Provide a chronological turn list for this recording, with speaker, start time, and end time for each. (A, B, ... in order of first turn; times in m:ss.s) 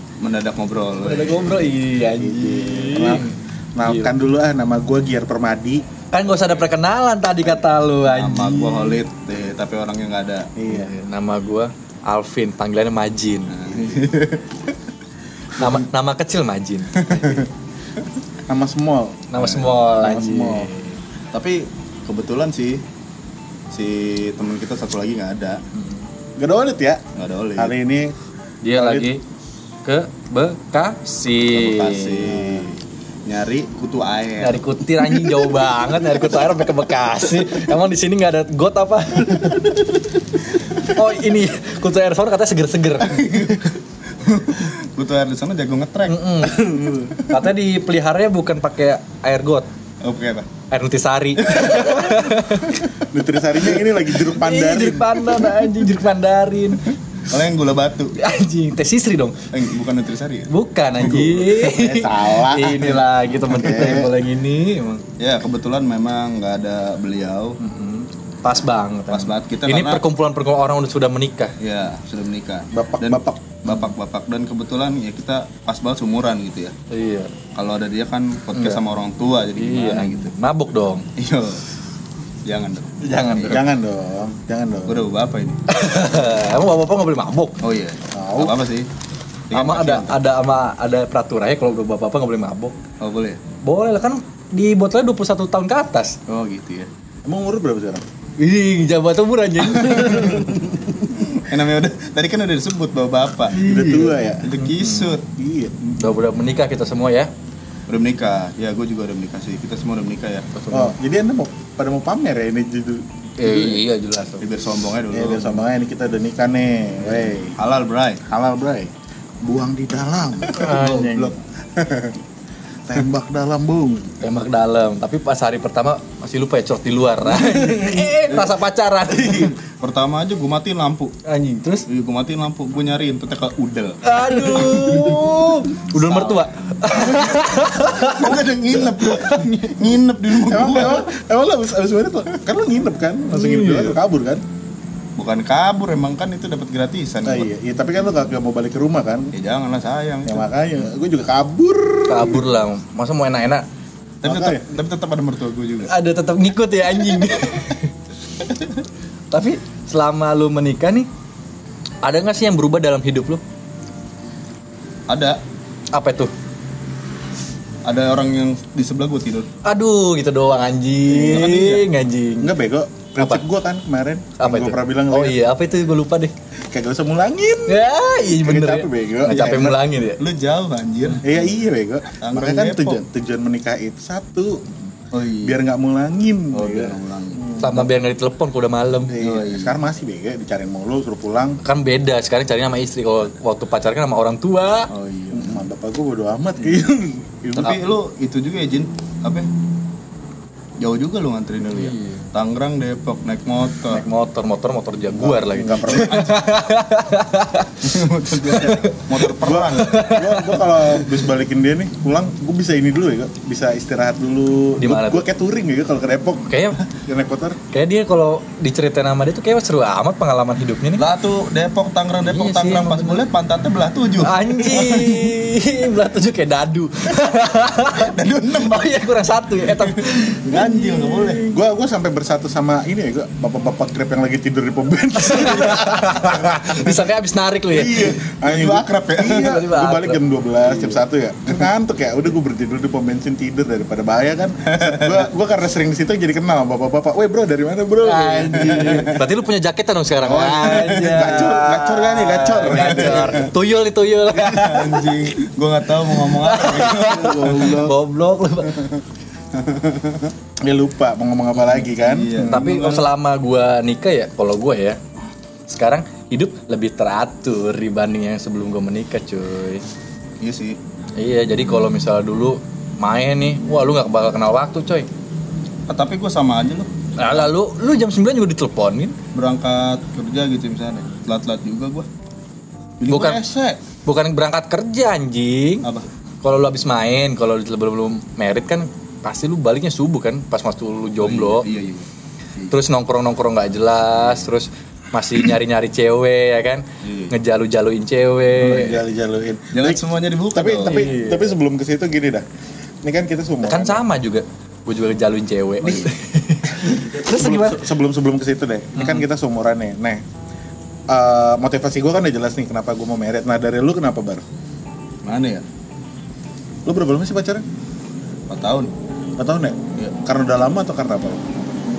0:00.2-0:01.4 A
0:01.0-0:04.1 B
0:02.2-0:05.8 C
0:06.1-0:09.0 B
0:08.0-0:10.5 A
0:10.6-0:10.9 C
0:10.7-0:13.6 B
0:13.5-0:14.4 A
0:15.6-0:17.4 B
0:17.0-0:17.5 A
0:18.5-0:19.2 C
0:19.3-0:21.0 B
0:19.4-0:19.8 A
0:20.0-0:20.7 C
0:21.3-0:22.8 A
0:23.7-0:25.6 A
0:25.7-0:26.0 B
0:26.4-0:27.0 C
0:27.2-0:27.7 A
0:27.6-0:28.1 C
0:28.6-0:29.2 B
0:28.8-0:29.1 C
0:29.8-0:32.7 B
0:31.5-0:32.7 A
0:33.2-0:36.5 A
0:34.4-0:39.6 B
0:39.3-0:39.8 A
0:40.6-0:43.7 B
0:43.0-0:46.4 A
0:46.0-0:49.7 B
0:46.4-0:47.2 C
0:50.0-0:50.5 A
0:50.7-0:52.8 B
0:51.4-0:52.9 A
0:53.0-0:55.3 C
0:54.2-0:56.9 B
0:57.3-0:58.1 A
0:58.2-0:59.5 B
0:59.5-1:01.5 A
1:00.5-1:05.0 B
1:01.4-1:04.2 C
1:05.2-1:07.6 A
1:07.6-1:11.5 B
1:09.1-1:10.0 A
1:11.6-1:16.7 A
1:12.7-1:13.6 C
1:16.9-1:17.3 B
1:17.5-1:20.3 A
1:18.5-1:18.8 B
1:19.6-1:21.1 B
1:21.2-1:21.6 A
1:22.4-1:23.6 A
1:23.0-1:23.6 B
1:23.5-1:25.0 C
1:24.8-1:25.6 A
1:25.7-1:27.6 B
1:27.6-1:28.9 A
1:28.1-1:28.6 C
1:29.5-1:30.2 A
1:29.5-1:32.8 B
1:33.0-1:33.4 A
1:33.6-1:36.2 B
1:36.3-1:36.9 A
1:37.2-1:38.0 C
1:38.4-1:40.7 B
1:40.0-1:43.7 A
1:43.5-1:45.1 B
1:43.6-1:44.5 C
1:44.4-1:45.2 A
1:45.3-1:45.9 C
1:46.0-1:47.3 B
1:47.9-1:50.5 A
1:50.5-1:51.0 B
1:50.7-1:53.0 C
1:53.4-1:54.4 B
1:53.4-1:53.7 A
1:54.4-1:55.6 A
1:55.1-1:57.6 C
1:57.5-1:58.2 A
1:58.2-1:58.9 C
1:59.4-2:01.3 C
2:00.5-2:02.1 A
2:00.6-2:01.2 B
2:02.9-2:04.1 C
2:04.2-2:09.6 B
2:07.4-2:08.1 C
2:08.3-2:08.5 A
2:09.2-2:11.1 A
2:11.2-2:11.9 B
2:11.9-2:15.3 A
2:14.0-2:19.7 B
2:15.9-2:17.3 A
2:17.9-2:21.1 A
2:20.4-2:24.4 C
2:23.3-2:24.0 B
2:25.2-2:27.5 A
2:27.2-2:29.3 C
2:29.3-2:30.4 A
2:30.2-2:32.5 C
2:32.1-2:33.6 B
2:34.2-2:35.9 A
2:34.2-2:34.6 C
2:35.8-2:37.9 B
2:39.3-2:41.1 B
2:42.0-2:43.4 B
2:45.1-2:45.4 A
2:45.9-2:46.3 B
2:47.8-2:49.5 A
2:49.6-2:52.5 B
2:51.1-2:51.8 A
2:52.4-2:55.4 C
2:54.4-2:56.3 B
2:56.7-2:59.8 C
2:57.7-3:00.2 B
3:00.2-3:01.3 A
3:01.2-3:04.7 C
3:02.2-3:03.0 A
3:05.1-3:05.6 A
3:05.4-3:07.9 C
3:06.5-3:07.6 A
3:07.6-3:09.2 B
3:09.1-3:11.6 C
3:09.2-3:09.8 A
3:11.6-3:14.9 B
3:14.9-3:15.6 A
3:15.3-3:17.8 C
3:17.5-3:19.5 A
3:20.8-3:24.0 A
3:21.7-3:22.2 B
3:23.9-3:30.6 B
3:25.1-3:26.2 C
3:25.7-3:26.5 A
3:27.8-3:30.0 A
3:29.3-3:37.6 C
3:34.8-3:35.2 B
3:36.5-3:36.8 B
3:37.7-3:41.0 B
3:41.0-3:45.3 A
3:42.2-3:43.2 B
3:44.2-3:51.6 B
3:47.8-3:49.0 A
3:49.7-3:51.4 A
3:51.5-3:56.9 C
3:55.2-3:58.2 B
3:57.7-4:09.1 C
3:57.9-3:59.6 A
3:59.2-4:01.0 B
4:04.6-4:05.3 A
4:08.0-4:18.8 B
4:08.5-4:09.2 A
4:10.2-4:11.8 A
4:10.5-4:13.5 C
4:12.4-4:13.5 A
4:14.3-4:17.9 A
4:17.0-4:18.0 C
4:19.5-4:20.3 A
4:20.6-4:22.6 C
4:21.6-4:23.1 A
4:22.5-4:25.0 B
4:25.7-4:29.8 B
4:30.4-4:30.8 A
4:31.2-4:35.1 B
4:35.9-4:37.5 A
4:37.2-4:39.2 B
4:39.3-4:42.1 A
4:43.0-4:43.5 A
4:43.1-4:43.4 B
4:43.2-4:43.8 C
4:44.0-4:45.9 B
4:46.4-4:51.7 B
4:51.2-4:52.7 A
4:52.7-4:59.0 B
4:57.0-4:57.3 A
4:58.6-5:02.4 C
4:59.7-5:01.1 A
5:00.8-5:01.5 B
5:03.0-5:04.0 C
5:03.6-5:07.8 B
5:06.8-5:10.2 C
5:11.1-5:14.4 C
5:15.2-5:15.6 A
5:16.8-5:17.6 C
5:18.5-5:18.9 A
5:19.4-5:21.7 C